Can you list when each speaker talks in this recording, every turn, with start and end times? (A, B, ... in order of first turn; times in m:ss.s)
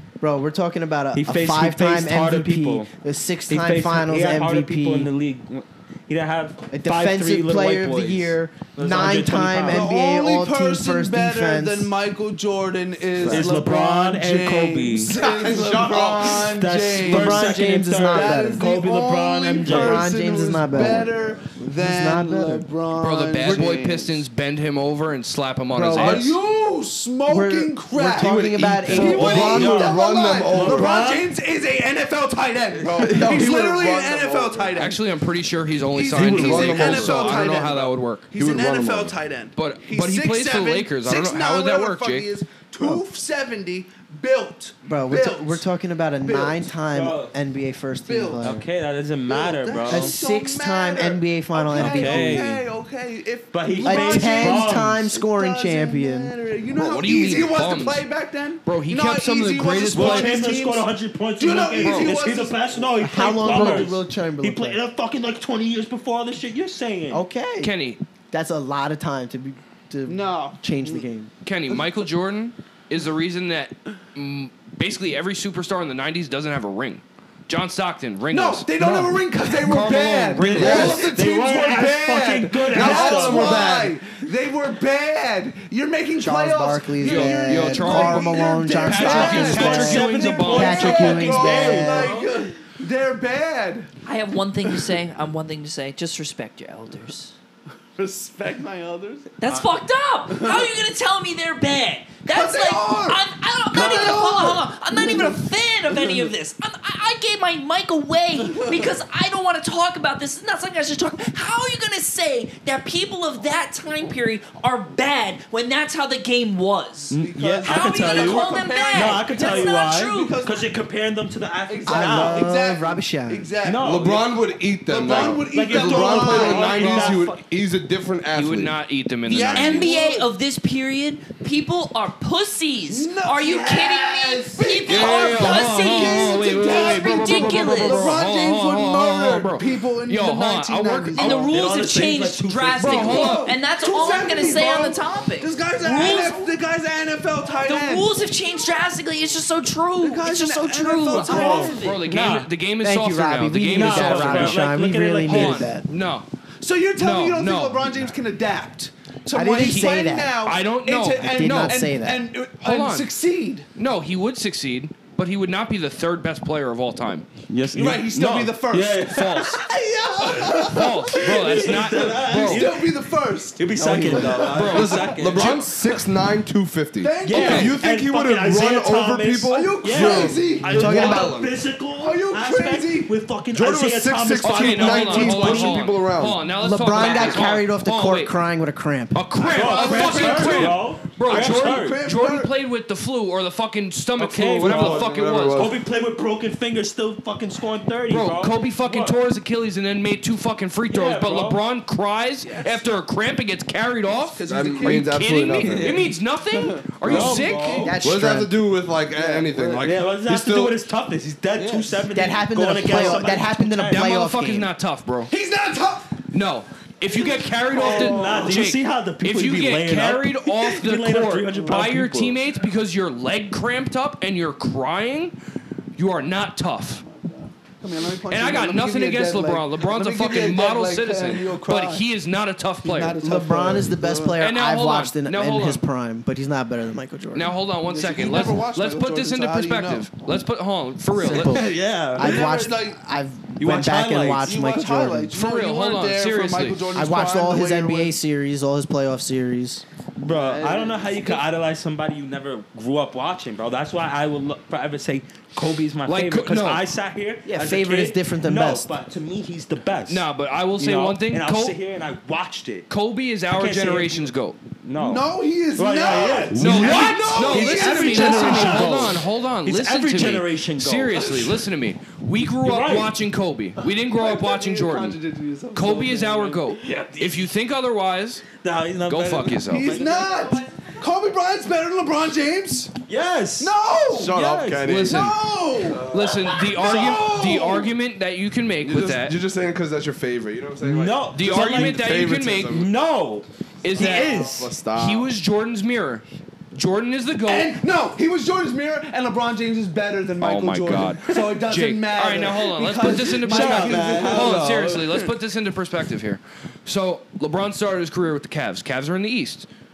0:00.2-0:05.1 A
0:01.2-0:02.9 B
0:03.5-0:09.9 B
0:06.7-0:11.9 A
0:09.7-0:24.2 C
0:13.2-0:15.2 B
0:15.1-0:16.6 D
0:16.3-0:20.1 B
0:17.0-0:18.7 A
0:19.6-0:22.7 A
0:23.0-0:26.3 E
0:23.4-0:23.8 A
0:25.7-0:26.2 A
0:26.0-0:26.4 D
0:26.0-0:35.0 C
0:27.3-0:29.8 A
0:28.1-0:31.1 D
0:28.9-0:31.3 B
0:32.8-0:34.8 D
0:34.8-0:38.3 E
0:35.9-0:45.6 C
0:36.1-0:39.2 D
0:39.6-0:42.3 E
0:44.9-0:48.7 A
0:46.2-0:46.8 C
0:46.9-0:47.3 B
0:48.1-0:48.5 C
0:48.4-0:50.2 B
0:49.3-1:03.9 C
0:49.9-0:52.6 A
0:51.7-0:52.6 B
0:53.5-0:55.1 B
0:53.8-0:56.3 A
0:56.8-0:58.1 E
0:58.6-1:00.4 E
0:59.9-1:07.2 B
1:01.7-1:02.2 E
1:03.0-1:04.8 A
1:07.1-1:07.7 A
1:07.6-1:08.0 E
1:08.3-1:11.3 A
1:10.1-1:11.1 C
1:11.4-1:21.1 E
1:18.3-1:33.9 C
1:20.4-1:23.7 B
1:20.6-1:21.1 D
1:22.7-1:24.0 D
1:26.2-1:32.2 A
1:27.0-1:31.3 E
1:29.0-1:32.3 B
1:34.0-1:37.3 F
1:38.0-1:39.3 C
1:39.4-2:00.4 F
1:40.3-1:40.7 C
1:42.3-1:45.4 C
1:45.9-1:46.3 C
1:48.4-1:48.9 C
1:57.1-2:02.5 B
1:57.2-2:00.8 C
2:01.7-2:04.2 C
2:01.9-2:03.5 A
2:03.6-2:04.2 B
2:03.8-2:08.8 D
2:04.9-2:07.2 C
2:05.1-2:07.4 B
2:08.4-2:09.9 E
2:09.3-2:10.3 C
2:09.3-2:18.2 F
2:12.9-2:21.5 C
2:14.9-2:21.5 E
2:14.9-2:15.3 D
2:21.2-2:26.5 F
2:21.4-2:23.3 B
2:22.8-2:23.5 E
2:23.0-2:28.2 C
2:27.6-2:32.0 F
2:30.0-2:31.8 C
2:31.1-2:32.5 B
2:31.7-2:34.7 E
2:32.8-2:35.8 A
2:33.7-2:35.8 B
2:35.2-2:36.3 E
2:36.6-2:43.7 C
2:37.0-2:38.0 E
2:39.3-2:40.4 A
2:39.6-2:39.9 E
2:40.4-2:41.9 E
2:41.2-2:42.2 A
2:42.6-2:43.1 E
2:43.8-2:47.3 E
2:47.5-2:49.6 B
2:47.7-2:55.2 C
2:49.1-2:49.6 E
2:50.4-2:52.7 E
2:51.1-2:52.9 B
2:53.6-2:55.7 B
2:53.8-2:54.4 A
2:54.5-2:55.4 E
2:54.7-3:01.6 D
2:57.0-2:57.8 C
2:57.2-3:05.8 B
2:57.3-2:57.8 E
2:59.5-3:01.3 C
3:00.7-3:01.3 A
3:01.9-3:03.1 C
3:03.5-3:06.4 D
3:04.4-3:08.4 E
3:06.5-3:09.2 A
3:09.1-3:15.7 E
3:09.4-3:12.5 C
3:09.5-3:12.0 B
3:14.2-3:19.2 B
3:14.6-3:15.8 D
3:18.1-3:27.9 E
3:20.9-3:21.6 B
3:22.4-3:22.9 C
3:24.1-3:25.2 C
3:24.5-3:26.0 D
3:25.6-3:26.2 B
3:26.5-3:28.0 C
3:27.0-3:28.0 B
3:27.0-3:27.4 D
3:27.8-3:28.6 A
3:28.0-3:30.8 D
3:29.1-3:29.8 C
3:29.8-3:34.0 B
3:31.6-3:32.0 C
3:32.1-3:34.7 A
3:33.0-3:33.3 C
3:33.9-3:35.3 E
3:35.3-3:36.2 C
3:36.3-3:45.4 E
3:37.1-3:38.7 C
3:37.7-3:42.4 B
3:41.6-3:41.8 C
3:46.0-3:47.0 E
3:47.0-3:52.0 C
3:48.3-3:53.2 E
3:52.8-3:54.4 C
3:53.2-3:57.6 A
3:54.4-3:55.8 E
3:57.3-4:01.6 E
3:57.8-4:00.1 C
4:01.2-4:05.4 A
4:01.3-4:02.5 B
4:02.2-4:03.0 C
4:03.6-4:04.5 B
4:04.4-4:08.2 C
4:05.3-4:06.8 E
4:06.9-4:09.8 A
4:10.2-4:20.3 B
4:10.2-4:11.4 C
4:16.1-4:16.8 E
4:17.5-4:18.9 A
4:20.1-4:21.8 E
4:20.8-4:22.9 B
4:22.9-4:24.6 E
4:23.5-4:31.6 B
4:25.0-4:29.2 C
4:26.6-4:27.4 D
4:26.6-4:35.2 E
4:32.5-4:33.1 B
4:34.1-4:36.6 C
4:35.7-4:38.5 E
4:36.8-4:37.4 B
4:38.6-4:40.6 B
4:39.1-4:40.0 E
4:39.6-4:42.9 C
4:43.1-4:44.9 B
4:43.6-4:44.4 C
4:44.2-4:46.6 D
4:44.8-4:45.4 E
4:45.0-4:47.9 C
4:46.1-4:49.4 E
4:48.8-4:52.9 D
4:50.8-4:52.2 B
4:51.3-4:52.8 E
4:52.7-4:54.7 B
4:53.8-4:57.8 E
4:54.0-4:55.3 D
4:57.5-5:05.3 C
5:00.4-5:09.7 E
5:03.0-5:05.0 B